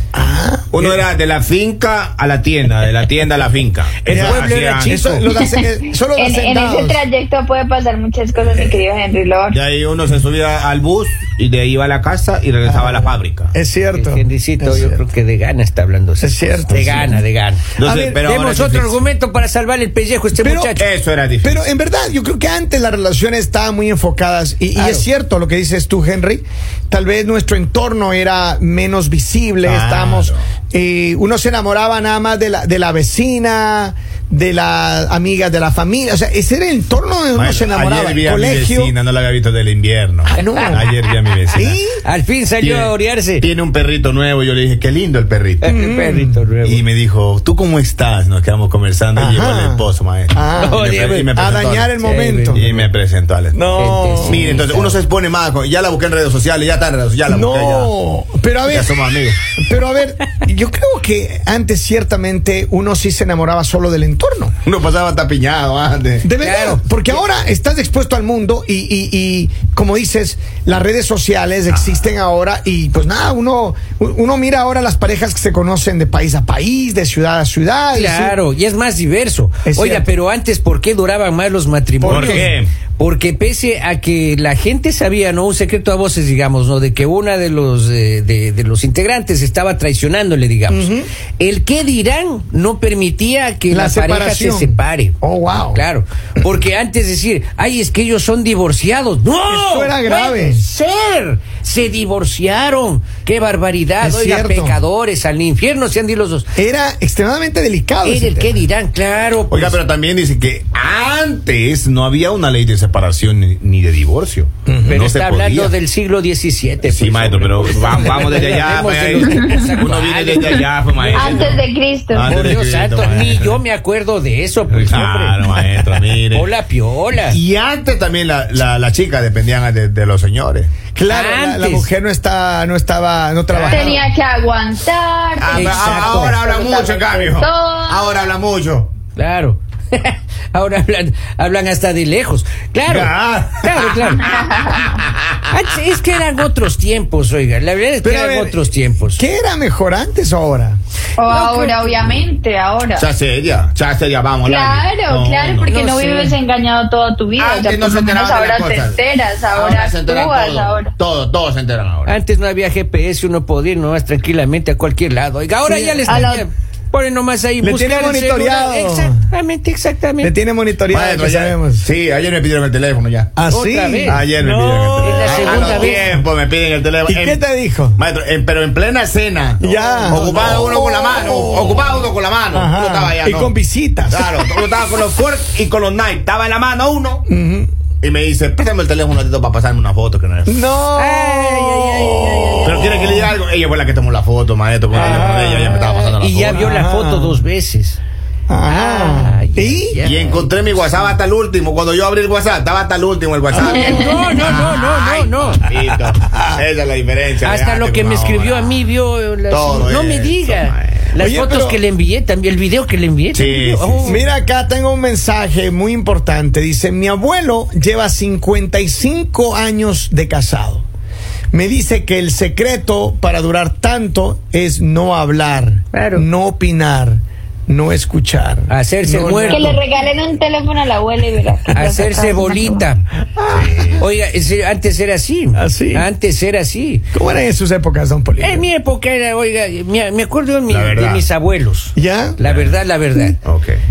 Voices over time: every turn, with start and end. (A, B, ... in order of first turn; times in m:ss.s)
0:00.1-0:01.0 A
0:00.7-0:05.0 B
0:04.0-0:05.2 C
0:04.1-0:07.0 A
0:05.4-0:09.6 D
0:09.5-0:13.5 B
0:12.6-0:15.0 A
0:13.9-0:17.7 C
0:16.2-0:17.2 A
0:17.8-0:19.0 B
0:17.8-0:18.2 A
0:18.2-0:20.8 C
0:20.4-0:20.8 A
0:20.8-0:21.6 B
0:21.4-0:38.9 A
0:24.7-0:25.0 C
0:29.6-0:30.4 B
0:37.3-0:41.8 B
0:40.2-0:40.9 A
0:40.4-0:43.4 C
0:41.5-0:42.0 A
0:42.6-0:45.7 B
0:45.6-0:46.8 C
0:45.7-0:46.4 A
0:46.6-0:52.0 B
0:49.2-0:52.6 A
0:50.6-0:51.3 C
0:52.0-0:52.9 C
0:52.5-0:53.6 B
0:53.5-0:54.5 A
0:53.8-0:54.9 C
0:54.2-0:57.9 B
0:57.3-1:04.6 A
0:58.6-0:59.4 B
1:04.6-1:06.3 B
1:06.2-1:18.3 A
1:06.4-1:06.9 C
1:17.9-1:35.2 C
1:19.6-1:20.1 A
1:22.0-1:22.5 A
1:22.0-1:22.7 B
1:30.7-1:31.1 A
1:33.7-1:35.8 A
1:35.7-1:46.5 C
1:39.5-1:40.6 A
1:44.0-1:44.8 A
1:46.6-1:48.6 A
1:48.0-1:49.8 C
1:49.5-1:55.7 B
1:54.7-1:55.0 A
1:54.9-2:01.6 C
1:56.8-2:03.6 B
2:01.1-2:02.4 D
2:02.2-2:05.4 C
2:04.7-2:06.5 B
2:06.3-2:07.4 C
2:07.2-2:10.7 B
2:10.9-2:14.1 A
2:11.1-2:11.9 C
2:13.5-2:14.0 C
2:13.7-2:18.3 D
2:15.4-2:18.9 B
2:15.5-2:16.4 C
2:19.2-2:24.4 C
2:22.9-2:25.1 B
2:24.2-2:24.9 D
2:25.4-2:29.2 C
2:28.0-2:30.8 A
2:31.2-2:33.1 D
2:31.2-2:32.2 C
2:32.9-2:35.8 B
2:34.4-2:40.9 D
2:35.7-2:36.4 C
2:37.4-2:42.1 B
2:42.1-2:50.3 C
2:45.7-2:46.3 A
2:46.1-2:46.4 D
2:47.6-2:49.2 A
2:50.2-2:51.9 A
2:50.9-2:53.4 B
2:53.4-2:56.2 A
2:53.5-2:54.2 C
2:54.1-2:57.4 B
2:55.0-2:56.1 C
2:57.1-2:58.0 A
2:58.0-3:03.5 B
2:59.6-3:02.0 A
2:59.7-3:00.2 C
3:02.5-3:04.7 A
3:04.1-3:07.2 B
3:07.3-3:07.7 A
3:08.0-3:10.6 B
3:10.4-3:13.3 A
3:10.9-3:12.8 C
3:12.6-3:16.7 B
3:14.9-3:15.8 A
3:14.9-3:18.0 C
3:16.5-3:17.4 A
3:18.5-3:20.0 A
3:18.7-3:20.5 C
3:20.0-3:24.2 B
3:23.6-3:25.6 C
3:23.6-3:26.6 A
3:25.4-3:28.8 B
3:27.4-3:34.2 C
3:29.5-3:31.1 B
3:31.2-3:31.8 A
3:33.3-3:34.2 B
3:34.0-3:40.8 A
3:41.5-3:49.8 A
3:45.9-3:46.2 C
3:48.7-3:49.8 C
3:49.5-3:52.8 D
3:51.7-3:53.0 C
3:53.4-3:53.9 A
3:53.5-3:54.0 B
3:54.0-3:57.0 C
3:55.6-3:56.1 A
3:57.1-3:58.7 A
3:58.4-4:03.4 C
4:00.7-4:01.2 B
4:01.9-4:02.4 A
4:02.4-4:02.7 B
4:03.4-4:03.8 B